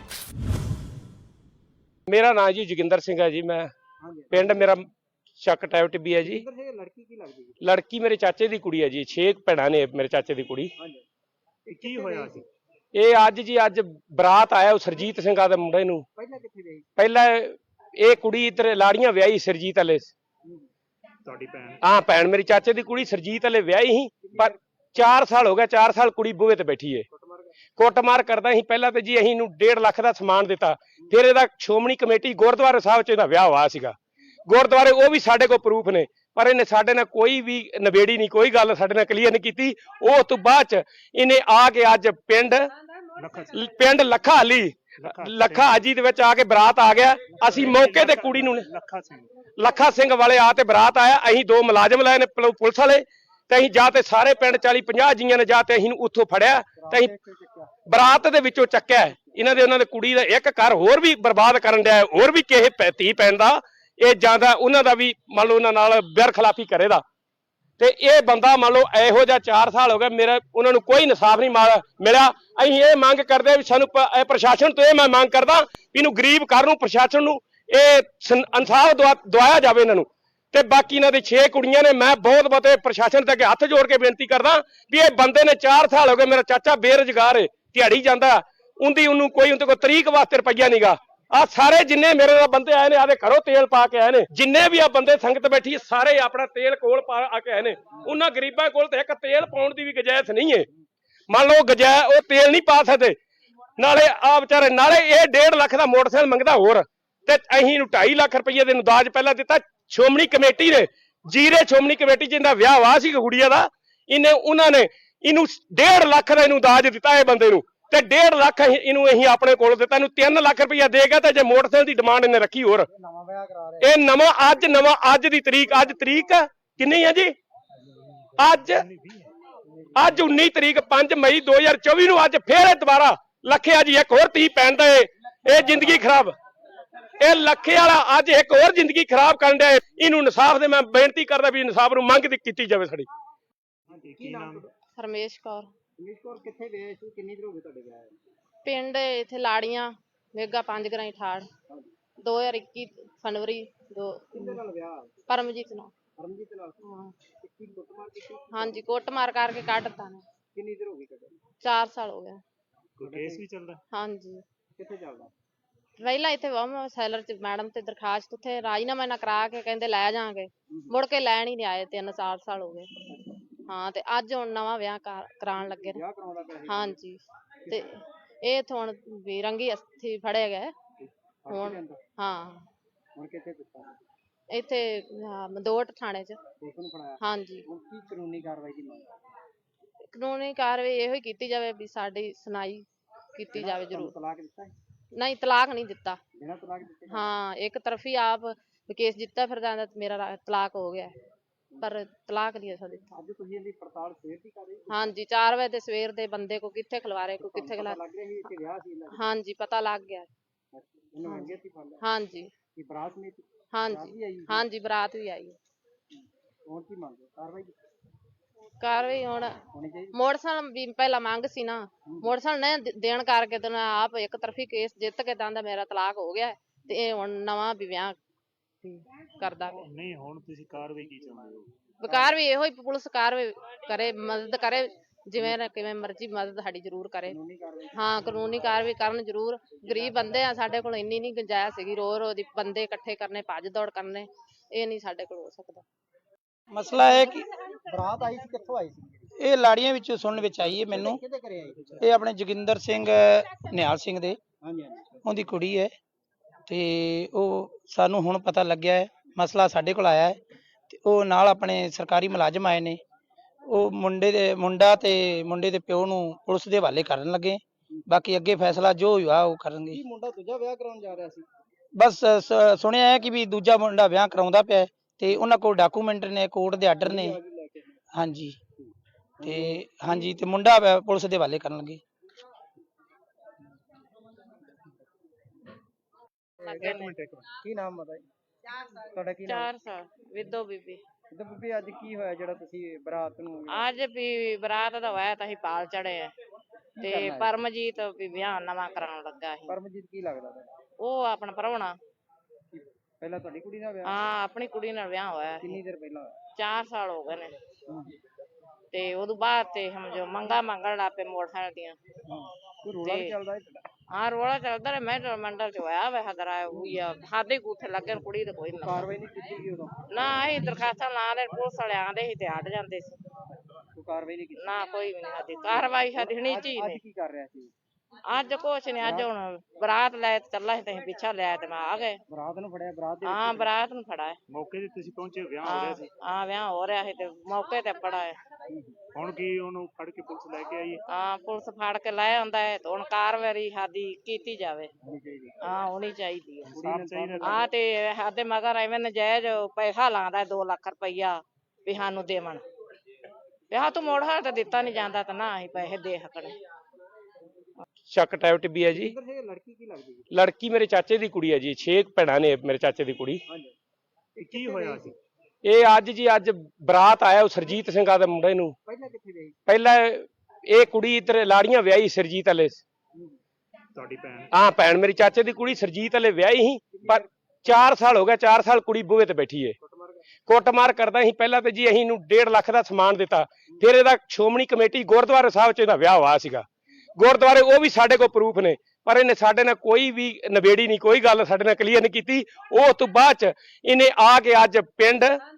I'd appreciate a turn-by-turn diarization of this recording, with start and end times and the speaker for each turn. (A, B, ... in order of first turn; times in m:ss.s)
0:02.1-0:03.7 A
0:04.0-0:04.7 B
0:04.3-0:04.8 A
0:05.4-0:06.4 A
0:06.2-0:07.6 B
0:07.6-0:10.7 A
0:10.8-0:11.0 B
0:11.6-0:12.4 B
0:11.7-0:12.4 C
0:12.9-0:16.0 A
0:16.2-0:16.9 B
0:17.0-0:20.1 A
0:21.2-0:21.8 C
0:21.8-0:27.0 A
0:24.2-0:25.2 B
0:27.1-0:27.5 B
0:27.8-0:34.0 A
0:34.5-0:42.6 A
0:43.2-0:43.6 C
0:43.5-0:48.7 A
0:45.0-0:45.8 C
0:47.3-0:47.9 B
0:47.4-0:49.3 C
0:49.6-0:57.1 A
0:56.8-0:57.7 B
0:57.9-1:07.0 A
1:07.8-1:40.7 A
1:41.3-1:43.1 A
1:43.8-2:02.9 A
2:02.9-2:03.9 B
2:03.8-2:07.3 A
2:08.4-2:08.8 A
2:08.6-2:09.3 C
2:09.7-2:10.2 B
2:09.9-2:16.3 A
2:17.2-2:23.1 A
2:23.9-2:24.7 C
2:23.9-2:24.7 B
2:25.0-2:25.7 D
2:26.0-2:28.2 B
2:28.6-2:31.5 D
2:32.2-2:34.6 D
2:34.3-2:35.2 B
2:35.3-2:35.9 D
2:36.2-2:38.9 B
2:36.8-2:37.1 D
2:38.5-2:40.2 D
2:40.5-2:41.4 B
2:41.6-2:42.4 D
2:43.0-2:43.8 C
2:43.0-2:43.4 B
2:43.9-2:44.4 D
2:44.7-2:45.3 B
2:46.0-2:52.9 D
2:53.7-2:56.0 D
2:55.6-2:57.0 B
2:56.7-3:00.7 D
3:01.4-3:02.0 B
3:01.5-3:02.7 D
3:03.2-3:04.0 B
3:04.5-3:06.4 D
3:06.6-3:09.1 B
3:07.2-3:07.7 D
3:10.0-3:14.1 D
3:13.5-3:14.7 B
3:15.1-3:16.2 D
3:16.4-3:17.3 B
3:17.1-3:21.2 D
3:21.8-3:23.1 D
3:23.1-3:25.1 B
3:24.9-3:28.0 D
3:27.4-3:29.3 B
3:29.1-3:30.3 D
3:30.7-3:32.0 B
3:31.2-3:32.5 D
3:32.8-3:34.6 B
3:33.7-3:35.6 D
3:36.1-3:37.8 B
3:38.8-3:39.6 D
3:39.7-3:40.1 B
3:40.1-3:48.2 D
3:42.1-3:42.3 B
3:48.8-3:49.8 D
3:49.8-3:51.7 C
3:52.0-3:57.4 D
3:52.1-3:52.4 B
3:57.3-3:58.8 B
3:57.9-4:05.8 D
3:59.8-4:00.4 B
4:06.7-4:07.5 E
4:07.9-4:09.3 B
4:09.4-4:11.2 E
4:10.6-4:12.1 B
4:12.0-4:14.4 E
4:14.6-4:15.2 B
4:15.2-4:15.9 E
4:16.7-4:23.0 E
4:23.7-4:30.0 E
4:29.9-4:31.5 B
4:32.0-4:37.4 E
4:37.0-4:38.0 B
4:38.1-4:38.6 E
4:38.8-4:40.4 B
4:39.4-4:42.0 E
4:46.6-4:47.0 B
4:46.7-4:47.1 F
4:46.8-4:47.5 C
4:47.5-4:48.2 B
4:49.0-4:49.7 B
4:49.4-4:51.0 F
4:51.3-4:53.9 B
4:53.7-4:56.3 F
4:57.0-4:57.6 B
4:57.0-4:59.8 F
4:59.7-5:00.7 B
5:01.0-5:02.0 F
5:02.7-5:04.2 B
5:04.0-5:05.7 F
5:05.6-5:06.4 B
5:06.6-5:07.5 F
5:07.9-5:08.1 B
5:08.9-5:12.0 F
5:12.3-5:13.8 B
5:13.0-5:13.3 F
5:14.1-5:19.1 F
5:16.7-5:17.0 B
5:18.8-5:19.9 B
5:20.1-5:23.2 F
5:23.9-5:24.6 B
5:24.6-5:27.0 F
5:26.0-5:27.7 B
5:28.3-5:32.2 F
5:29.0-5:29.3 B
5:32.3-5:33.7 B
5:33.2-5:34.4 F
5:34.5-5:36.1 C
5:35.6-5:38.4 F
5:38.7-5:39.0 B
5:39.1-5:41.0 C
5:41.1-5:44.9 F
5:45.0-5:45.6 B
5:45.6-5:46.8 F
5:46.7-5:47.6 C
5:46.7-5:47.7 B
5:47.4-5:52.6 F
5:53.7-5:56.6 F
5:58.1-5:59.1 A
5:58.9-6:00.3 B
6:00.3-6:03.4 A
6:03.5-6:03.7 B
6:04.4-6:05.1 B
6:04.4-6:05.2 C
6:05.6-6:08.7 A
6:08.8-6:09.6 B
6:09.7-6:12.8 A
6:13.1-6:13.4 B
6:13.9-6:14.5 C
6:14.5-6:19.7 A
6:16.9-6:17.9 B
6:19.8-6:20.2 B
6:20.5-6:26.6 A
6:27.2-6:35.4 A